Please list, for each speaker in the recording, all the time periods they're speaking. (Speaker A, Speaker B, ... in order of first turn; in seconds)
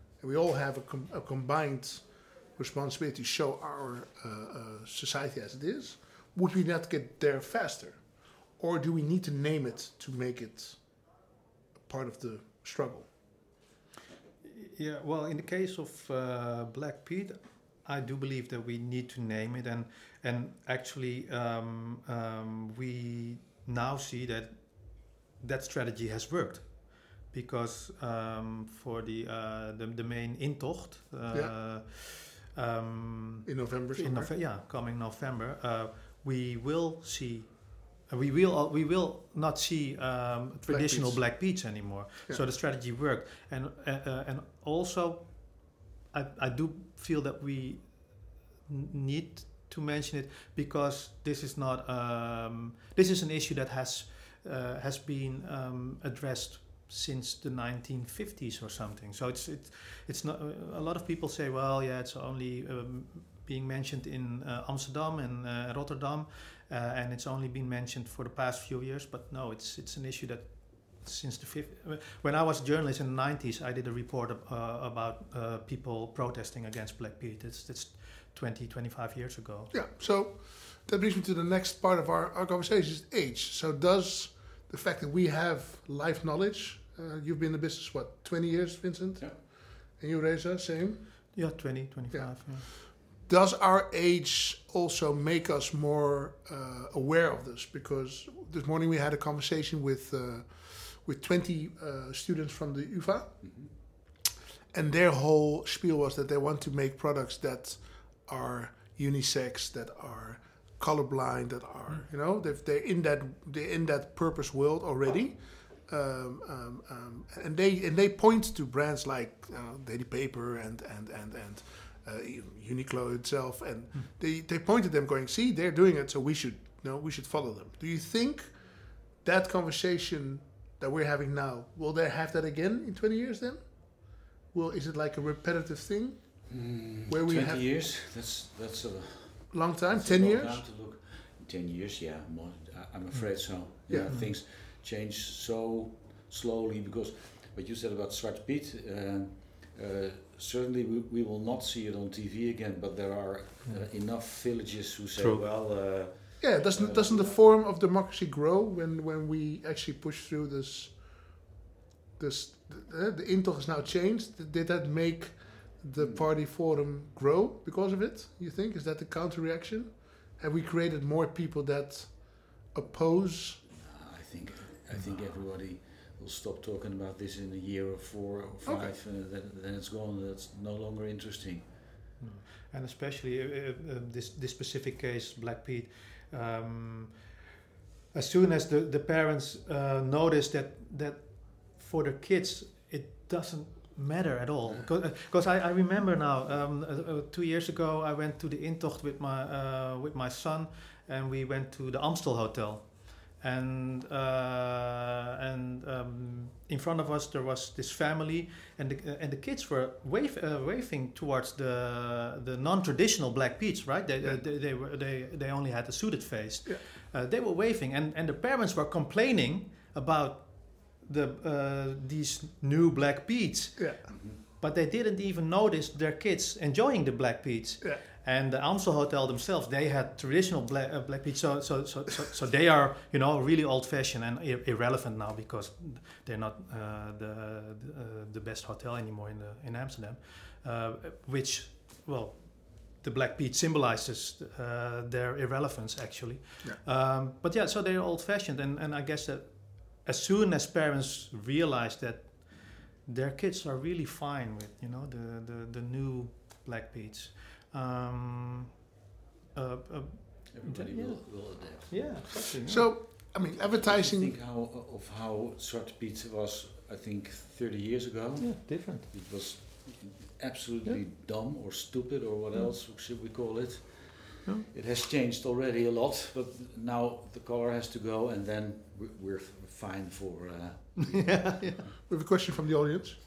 Speaker A: 0.2-10.8, 11.8-13.1, 33.5-34.3, 40.7-41.8, 79.7-91.4, 92.1-103.8, 104.7-137.7, 139.5-140.6, 143.9-144.2, 156.4-161.4, 162.2-173.6, 178.6-178.9, 262.6-264.4, 282.1-283.2
Speaker B: 14.4-79.7, 91.3-92.7, 143.2-144.3, 155.2-156.0, 182.2-187.3, 188.1-258.7, 259.5-263.1, 268.4-269.1, 281.0-281.9
Speaker C: 103.4-103.7, 136.5-157.4, 166.0-166.3, 173.7-181.7, 260.5-262.2, 263.4-281.9